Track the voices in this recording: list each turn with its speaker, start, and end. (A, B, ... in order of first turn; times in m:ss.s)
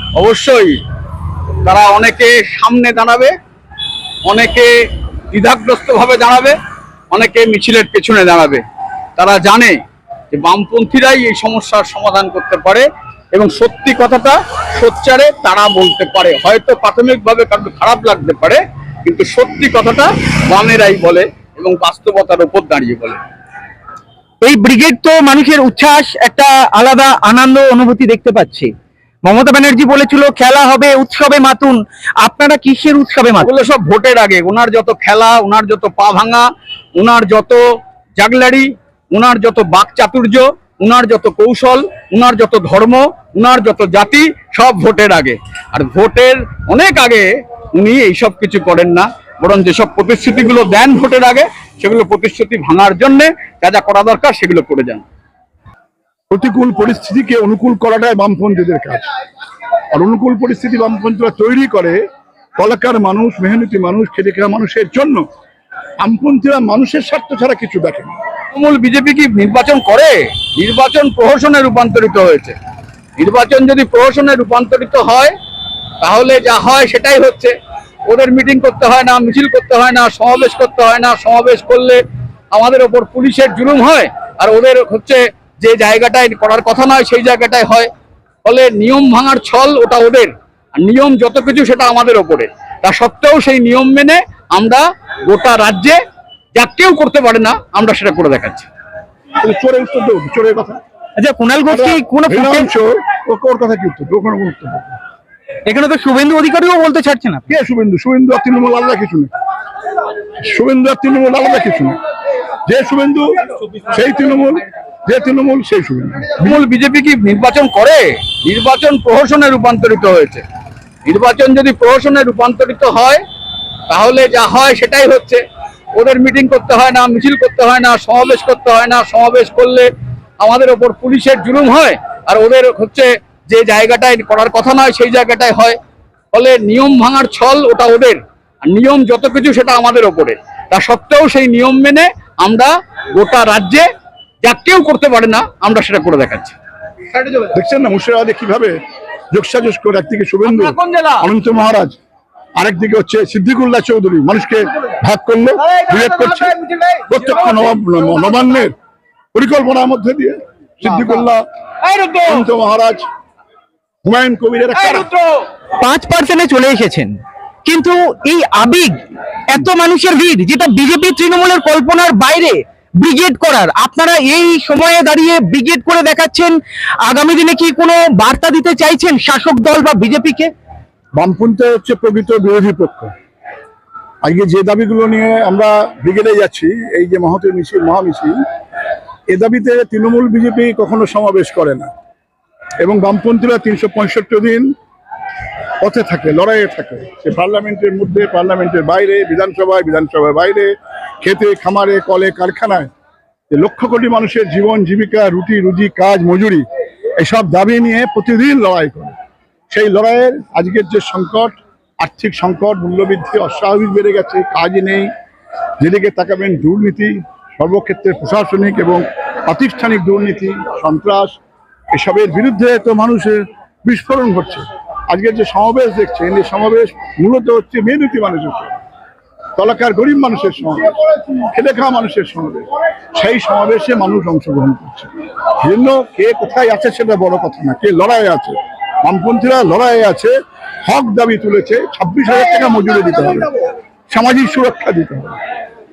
0:00.2-0:00.8 A
0:01.6-0:03.3 A
0:04.3-0:04.7 A
0:05.3-0:06.6 A
0:07.1-0:08.6 A
0:09.2-0:09.8 A
0:10.3-0:23.2 A
0:24.4-0:28.7 B
0:29.3-0:33.5 B
0:33.4-0:55.1 A
0:56.3-0:59.0 C
0:59.9-1:02.0 C
1:02.6-1:05.2 C
1:06.0-1:08.1 C
1:08.5-1:12.6 A
1:13.2-1:15.3 A
1:16.0-1:17.6 A
1:18.1-1:27.9 A
1:28.4-1:36.0 A
1:36.6-1:38.7 A
1:39.4-1:40.8 C
1:41.2-1:42.7 B
1:41.7-1:45.0 C
1:45.7-1:47.5 B
1:47.5-1:49.3 C
1:50.4-1:52.0 C
1:52.7-1:53.3 C
1:53.9-1:56.6 C
1:56.4-2:00.4 A
2:01.1-2:03.2 A
2:03.9-2:05.4 A
2:06.0-2:15.8 A
2:16.3-2:23.9 A
2:24.4-2:26.6 A
2:27.5-2:28.8 C
2:29.3-2:32.0 C
2:30.4-2:31.3 A
2:32.6-2:38.7 C
2:36.6-2:37.1 A
2:39.3-2:41.4 C
2:41.8-2:42.3 A
2:42.2-2:43.1 C
2:44.0-2:45.1 C
2:45.0-2:45.4 A
2:45.8-3:00.5 B
3:01.2-3:03.1 C
3:04.2-3:08.4 C
3:09.3-3:11.9 C
3:12.8-3:14.7 C
3:15.8-3:20.7 C
3:21.2-3:22.9 C
3:23.5-3:26.6 C
3:27.2-3:29.2 C
3:29.7-3:35.1 C
3:35.8-3:41.4 C
3:41.9-3:48.7 C
3:49.6-3:51.0 C
3:51.5-3:55.1 C
3:55.6-4:00.3 C
4:00.8-4:03.5 C
4:04.1-4:05.4 C